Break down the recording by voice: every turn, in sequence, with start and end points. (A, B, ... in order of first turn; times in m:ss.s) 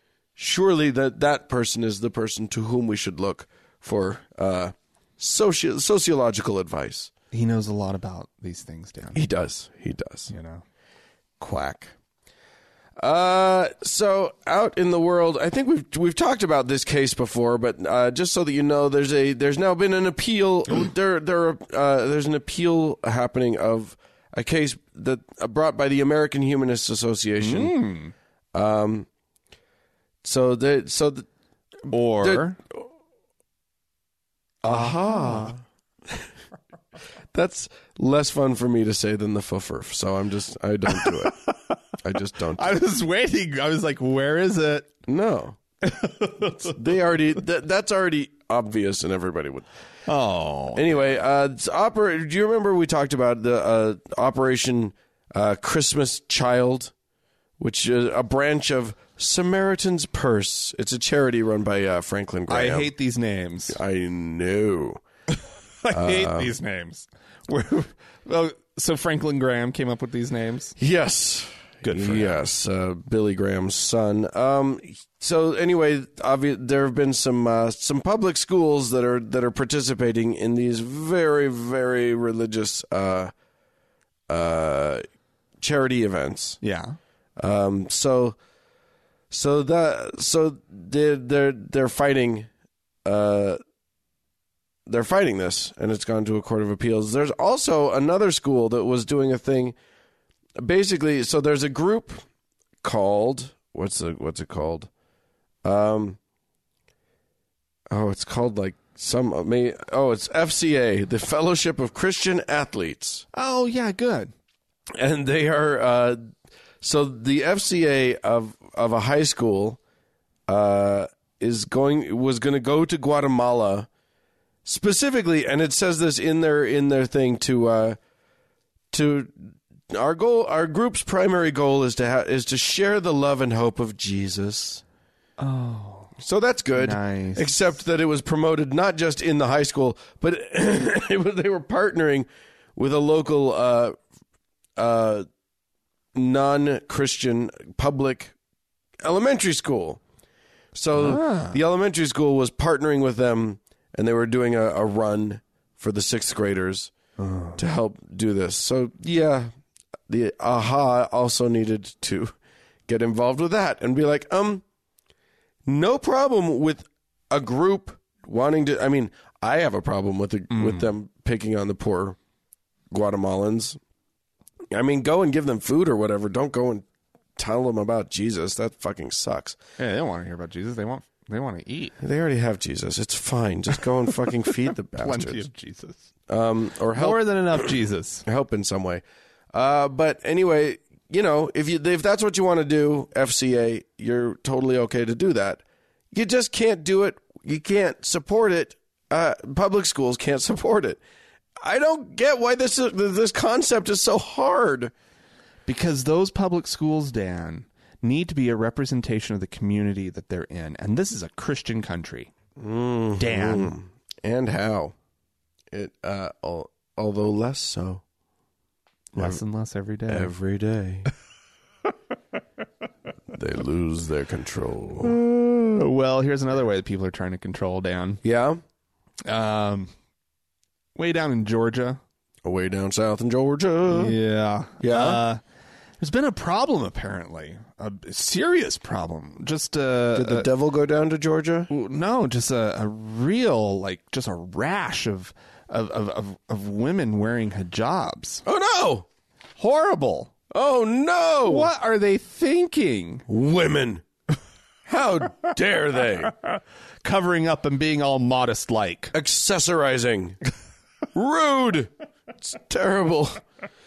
0:00.4-0:07.1 A
0:07.3-0:09.2 B
0:09.1-0:10.3 A
0:10.3-0:10.6 B
0:11.4-0:11.9 A
0:13.0-0:27.8 A
0:27.4-0:28.1 B
0:28.5-0:29.1 A
0:30.2-0:31.3 A
0:31.9-0:32.6 B
0:31.9-0:32.8 A
0:34.6-0:35.6 B
0:34.6-0:35.6 A
0:37.3-0:41.4 A
0:40.9-0:41.5 B
0:42.0-0:42.8 A
0:42.6-0:44.9 B
0:45.1-0:45.6 A
0:45.8-0:46.7 B
0:46.4-0:49.7 A
0:50.1-0:50.9 B
0:50.7-0:56.9 A
0:57.6-1:02.9 A
1:02.5-1:03.8 B
1:03.7-1:05.0 A
1:05.8-1:10.8 B
1:05.9-1:06.5 A
1:10.8-1:23.3 A
1:11.8-1:12.4 B
1:24.3-1:25.0 A
1:25.6-1:26.6 A
1:26.6-1:27.0 B
1:27.4-1:28.4 A
1:29.3-1:32.5 A
1:33.0-1:33.6 A
1:34.9-1:39.8 A
1:40.6-1:42.2 A
1:42.8-1:44.9 A
1:45.6-1:46.2 A
1:47.9-1:53.3 A
1:53.3-1:54.3 B
1:55.0-1:56.3 A
1:56.8-1:59.8 A
2:00.5-2:03.9 A
2:04.6-2:08.0 A
2:08.9-2:14.8 A
2:15.4-2:16.1 B
2:16.2-2:24.0 A
2:16.8-2:17.6 B
2:24.8-2:25.3 A
2:26.1-2:28.3 A
2:29.0-2:30.0 A
2:30.7-2:36.9 A
2:31.0-2:31.6 B
2:37.2-2:37.6 B
2:37.6-2:39.5 A
2:40.1-2:42.4 A
2:42.9-2:44.6 A
2:45.7-2:52.2 A
2:50.5-2:50.9 B
2:52.9-2:53.8 A
2:54.7-2:56.8 A
2:57.4-2:59.6 A
2:59.8-3:02.0 B
3:02.0-3:05.5 A
3:05.0-3:06.0 B
3:06.3-3:21.0 A
3:07.0-3:08.2 B
3:21.6-3:24.9 A
3:25.7-3:32.3 B
3:32.6-3:35.0 A
3:33.2-3:33.8 B
3:35.7-3:38.0 A
3:39.2-3:40.3 B
3:39.2-3:39.4 A
3:40.1-3:41.1 A
3:43.3-3:45.2 A
3:45.0-3:48.2 B
3:48.2-3:48.6 A
3:49.3-3:49.9 B
3:51.0-3:52.0 B
3:52.4-3:54.2 A
3:53.9-3:55.4 B
3:54.8-3:55.2 A
3:56.0-4:00.5 B
4:00.1-4:01.7 A
4:01.7-4:08.4 B
4:08.4-4:09.1 A
4:09.6-4:10.3 B
4:10.5-4:11.7 A
4:11.4-4:13.2 B
4:13.3-4:14.0 A
4:14.9-4:16.3 A
4:17.0-4:19.1 B
4:19.1-4:20.4 A
4:21.1-4:23.4 A